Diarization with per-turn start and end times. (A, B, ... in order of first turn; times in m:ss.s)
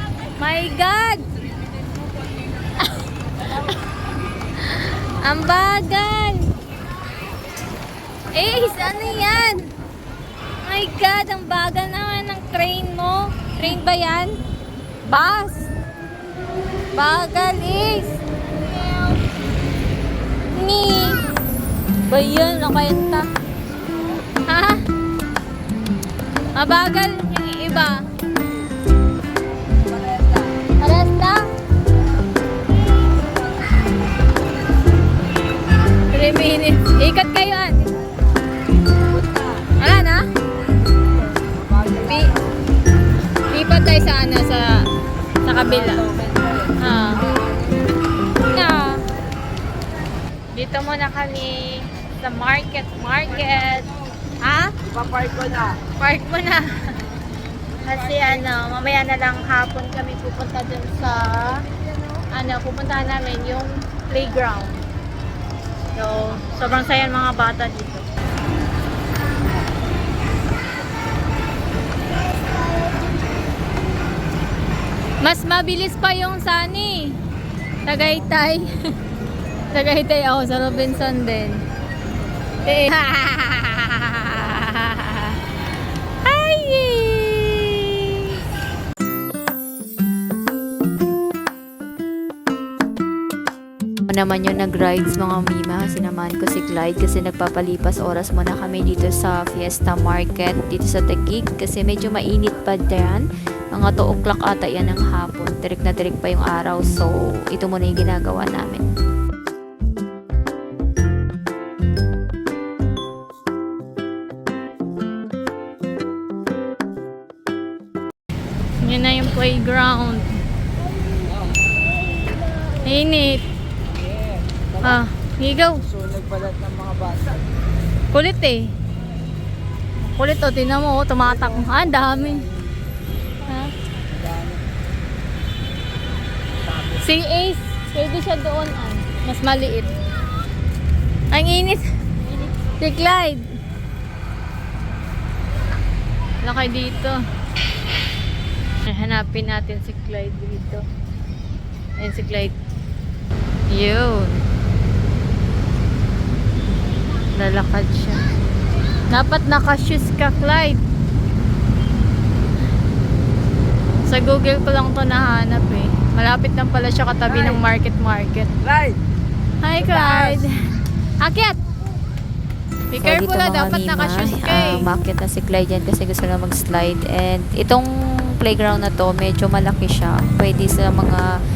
0:00.4-0:01.3 A
0:04.6-0:06.5 A
0:08.3-0:09.7 A
0:10.6-0:14.4 A
0:15.0-0:15.7 A
0:16.9-0:19.2 A
0:20.5-0:21.2 A
0:22.1-0:23.3 A
0:24.5-0:24.8 A
0:26.6-0:28.0 A
0:29.9-0:30.6 B
0:30.8-0:31.5 A
0:36.1-0:37.9 A
0:38.9-0:39.7 B
0:39.8-0:40.2 A
0:41.3-0:42.4 B
0:42.0-0:42.3 A
0:43.5-0:44.9 A
0:45.4-0:46.0 A
0:45.6-0:47.7 B
0:46.8-0:47.4 A
0:48.4-0:49.0 A
0:50.5-0:54.7 A
0:54.8-0:55.8 B
0:56.0-0:57.0 A
0:57.8-1:01.6 A
1:02.3-1:04.8 A
1:05.9-1:08.0 A
1:15.2-1:17.2 A
1:17.9-1:18.8 A
1:19.7-1:21.6 A
1:20.8-1:21.1 B
1:22.6-1:25.4 A
1:26.2-1:28.4 A
1:34.1-1:48.9 C
1:58.8-2:00.3 A
2:01.2-2:01.6 B
2:02.8-2:03.4 A
2:03.9-2:05.0 B
2:04.8-2:05.8 A
2:05.6-2:07.4 B
2:08.1-2:08.7 A
2:10.0-2:12.5 A
2:11.2-2:12.6 B
2:13.5-2:13.7 A
2:14.1-2:14.6 B
2:16.6-2:17.1 B
2:17.0-2:20.0 A
2:21.3-2:21.9 A
2:22.7-2:23.4 A
2:26.4-2:27.2 A
2:28.8-2:30.9 A
2:32.0-2:32.6 A
2:33.7-2:34.4 A
2:37.3-2:38.2 A
2:39.1-2:40.8 A
2:44.1-2:48.5 A
2:47.3-2:47.6 B
2:48.6-2:49.0 B
2:49.6-2:50.5 A
2:49.9-2:50.4 C
2:51.2-2:51.6 A
2:52.9-2:54.9 A
2:53.0-2:57.9 C
2:58.4-3:01.3 C